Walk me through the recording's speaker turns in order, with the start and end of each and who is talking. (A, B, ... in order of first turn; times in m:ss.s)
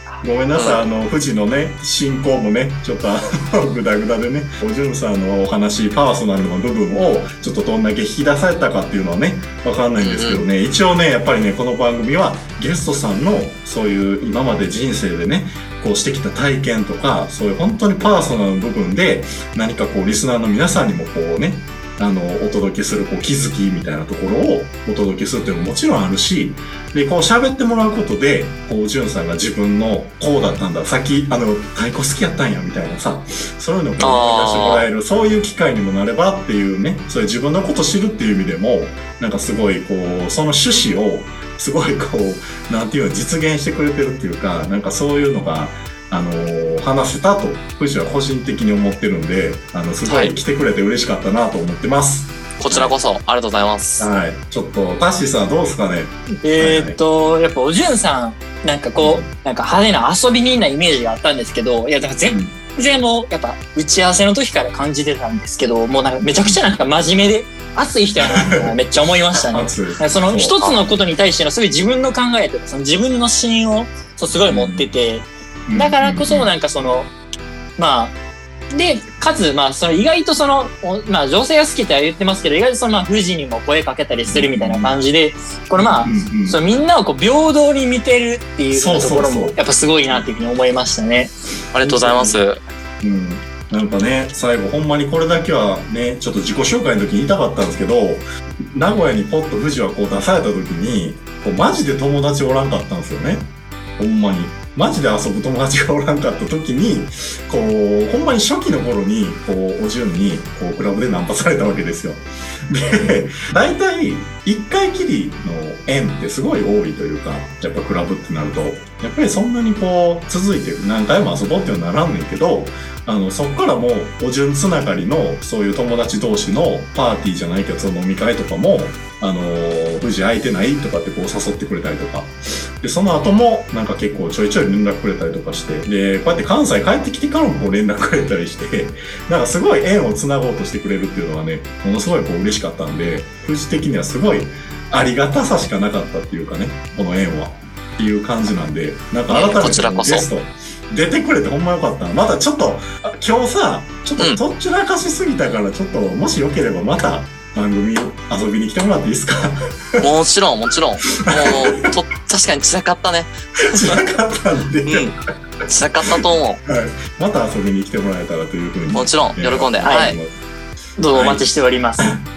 0:00.2-0:52.9 A
0:00.5-0:00.8 B
0:10.0-0:10.4 B
0:34.0-0:34.9 B
0:50.0-0:50.3 B
0:52.6-0:54.1 B
0:54.0-0:57.0 A
0:56.4-1:17.1 C
0:59.0-0:59.3 A
1:02.3-1:02.6 A
1:08.3-1:08.8 A
1:09.4-1:10.6 A
1:14.5-1:14.9 A
1:15.6-1:16.5 A
1:17.8-1:18.2 C
1:18.7-1:31.3 C
1:24.3-1:25.0 A
1:25.8-1:26.6 A
1:28.7-1:29.6 A
1:31.7-1:32.6 B
1:31.8-1:32.4 A
1:33.0-2:40.1 A
2:29.3-2:30.3 B
2:40.0-2:44.0 B
2:41.1-2:41.9 A
2:43.6-2:45.1 A
2:44.8-2:46.6 B
2:46.1-2:50.3 A
2:48.9-2:50.2 B
2:49.8-2:50.1 C
2:51.0-2:52.2 C
2:51.1-2:52.2 A